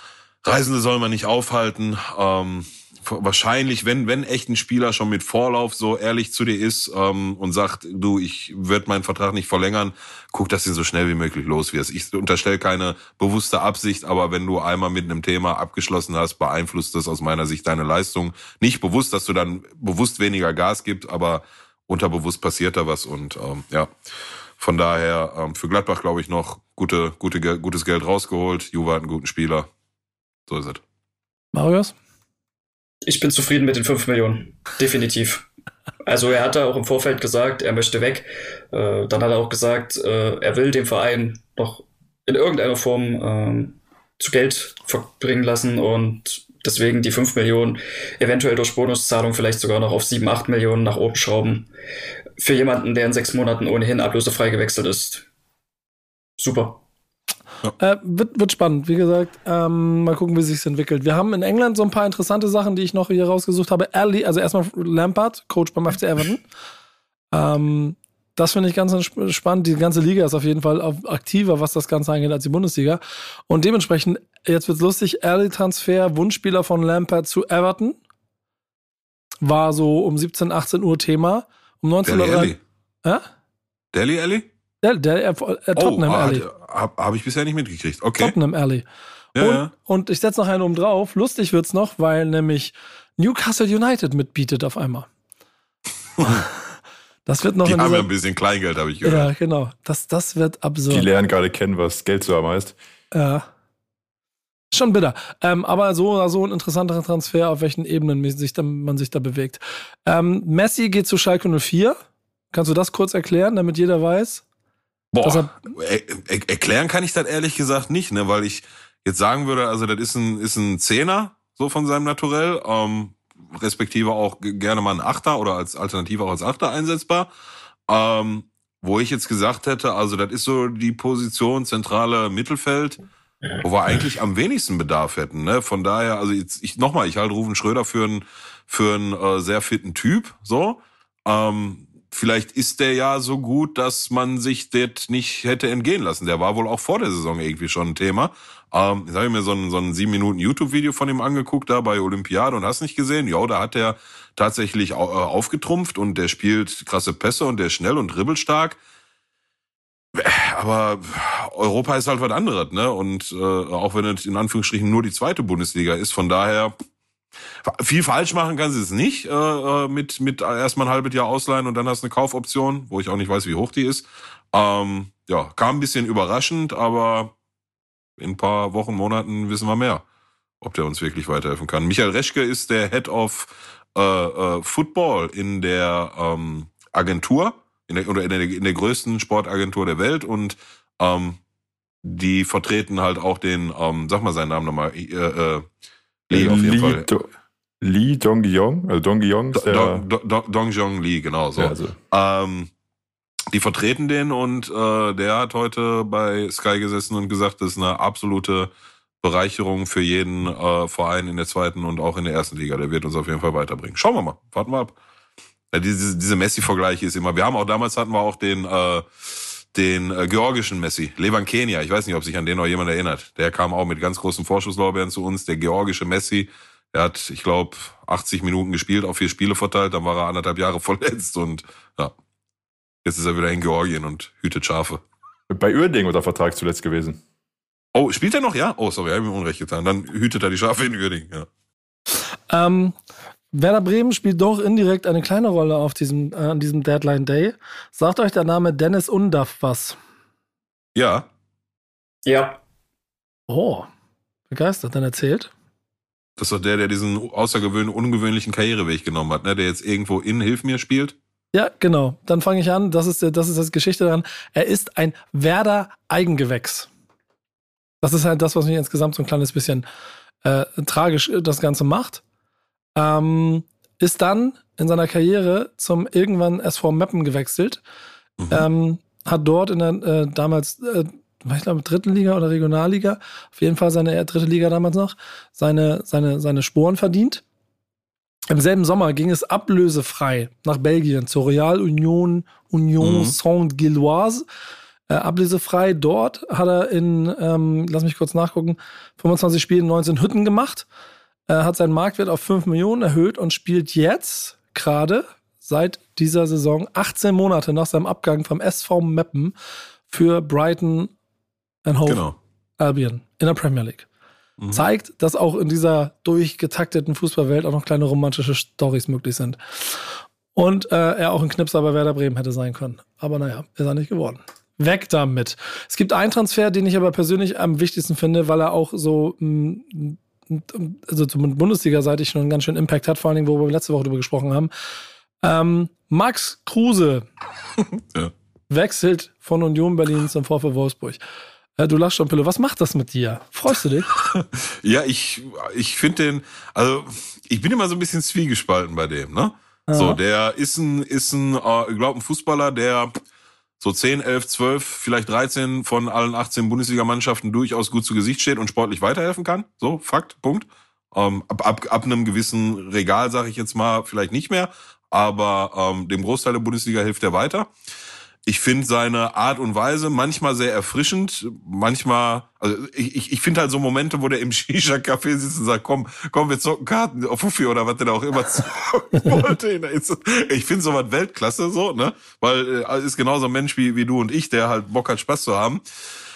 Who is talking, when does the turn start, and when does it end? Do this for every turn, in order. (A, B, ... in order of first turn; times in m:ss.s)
0:00.4-0:23.9 A
0:24.6-0:29.7 A
0:30.5-0:30.8 A
0:31.5-0:31.9 B
0:33.0-0:35.4 C
0:36.0-0:51.7 C
0:52.4-0:55.2 C
0:56.4-0:56.8 C
0:57.8-1:06.4 B
1:07.3-1:18.0 B
1:19.4-1:23.2 B
1:22.0-1:22.6 A
1:23.9-1:24.5 A
1:24.8-1:26.4 B
1:25.8-1:28.4 A
1:28.2-1:28.8 B
1:29.3-1:29.7 A
1:29.4-1:35.1 B
1:36.2-1:36.4 A
1:37.2-1:38.1 B
1:37.6-1:39.3 A
1:39.0-1:41.1 B
1:40.9-1:42.8 D
1:43.1-1:43.4 B
1:44.7-1:52.0 B
1:52.5-1:54.4 B
1:55.1-2:07.3 A
1:55.2-1:55.5 B
2:07.9-2:13.0 A
2:13.6-2:38.8 A
2:40.1-2:46.7 A
2:47.6-2:57.3 A
2:58.2-3:00.0 A
3:00.6-3:11.4 A
3:12.0-3:15.6 A
3:16.3-3:17.1 A
3:16.3-3:17.3 D
3:17.8-3:20.0 D
3:19.5-3:22.7 A
3:21.6-3:21.9 D
3:23.5-3:28.7 A
3:29.2-3:35.0 A
3:35.7-3:39.1 A
3:39.7-3:52.1 A
3:53.0-3:55.0 A
3:55.5-3:57.2 D
3:57.9-4:01.5 A
4:02.5-4:03.0 B
4:03.5-4:10.0 B
4:10.9-4:11.2 A
4:12.2-4:12.6 C
4:13.5-4:13.9 B
4:14.5-4:15.5 B
4:16.4-4:21.2 A
4:21.5-4:26.9 B
4:28.0-4:29.8 B
4:30.4-4:32.2 B
4:33.0-4:37.8 B
4:38.4-4:38.7 A
4:38.5-4:47.4 B
4:48.5-4:54.4 B
4:53.0-4:53.4 A
4:55.1-5:00.8 B
5:01.5-5:09.5 B
5:10.1-5:11.1 B
5:11.8-5:12.2 B
5:12.0-5:12.4 A
5:12.8-5:14.1 B
5:14.7-5:20.0 B
5:20.5-5:34.7 B
5:35.4-5:37.2 B
5:38.7-5:41.2 B
5:41.8-5:44.1 B
5:44.3-5:53.1 A
5:49.9-5:50.2 B
5:53.8-6:07.7 A
6:08.4-6:25.8 A